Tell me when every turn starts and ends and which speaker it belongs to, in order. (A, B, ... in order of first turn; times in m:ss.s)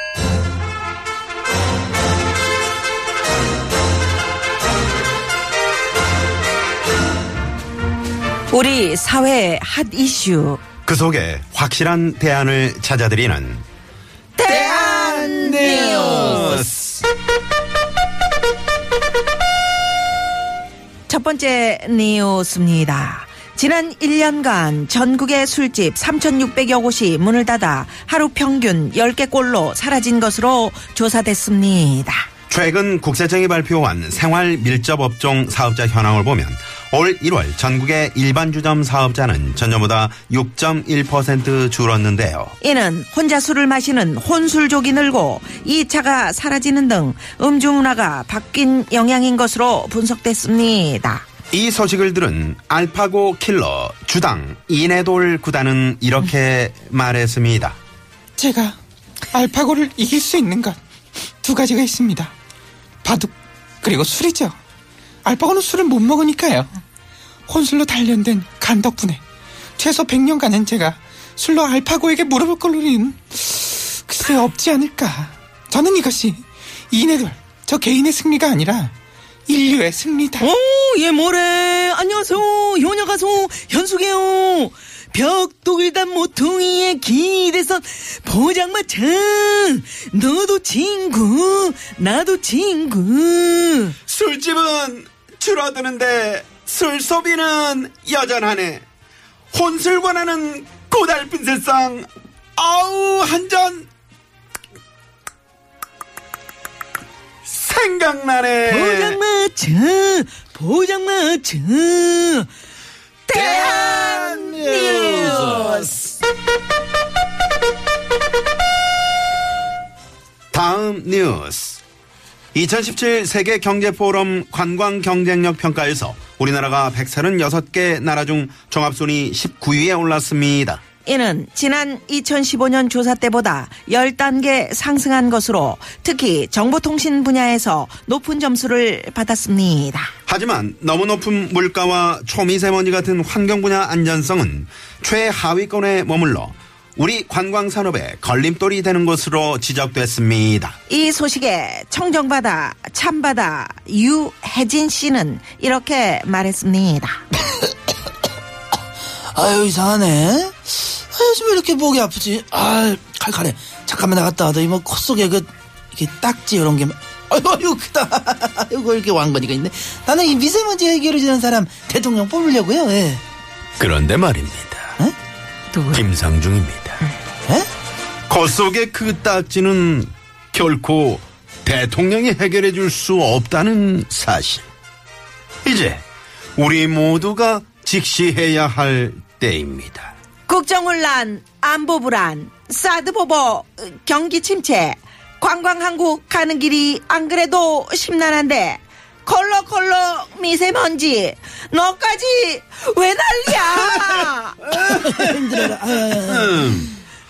0:08.5-0:10.6 A
0:10.8-0:13.6 B
0:14.4-0:16.7 A
0:15.6-0:16.9 B
0:21.1-0:32.3 A
0:32.5-0:42.5 B
0:42.6-0:51.2 A
0:51.5-0:57.8 B
0:58.4-0:58.8 C
0:59.3-1:00.8 C
1:01.4-1:02.3 C
1:03.0-1:04.6 C
1:05.2-1:06.7 C
1:07.5-1:09.2 C
1:09.8-1:18.9 C
1:19.5-1:20.4 C
1:20.5-1:25.6 D
1:22.8-1:24.5 A
1:25.1-1:29.5 A
1:28.4-1:30.7 D
1:30.0-1:33.9 A
1:31.3-1:31.9 D
1:33.2-1:33.8 D
1:34.0-1:38.8 B
1:39.5-1:43.9 B
1:47.5-1:49.2 B
1:48.7-1:52.5 A
1:53.3-1:56.0 A
2:00.5-2:01.8 B
2:02.5-2:10.8 B
2:11.0-2:20.1 A
2:20.3-2:30.8 B
2:30.9-2:37.2 A
2:39.3-2:40.6 E
2:41.1-2:53.2 E
2:43.8-2:44.4 D
2:48.0-2:48.3 D
2:50.8-2:51.8 D
2:53.8-2:55.0 B
2:55.7-2:56.0 D
2:55.9-2:57.0 B
2:58.3-3:04.6 B
3:05.6-3:06.0 B
3:06.6-3:10.1 B
3:10.5-3:24.6 A
3:24.8-3:26.5 E
3:26.1-3:26.9 B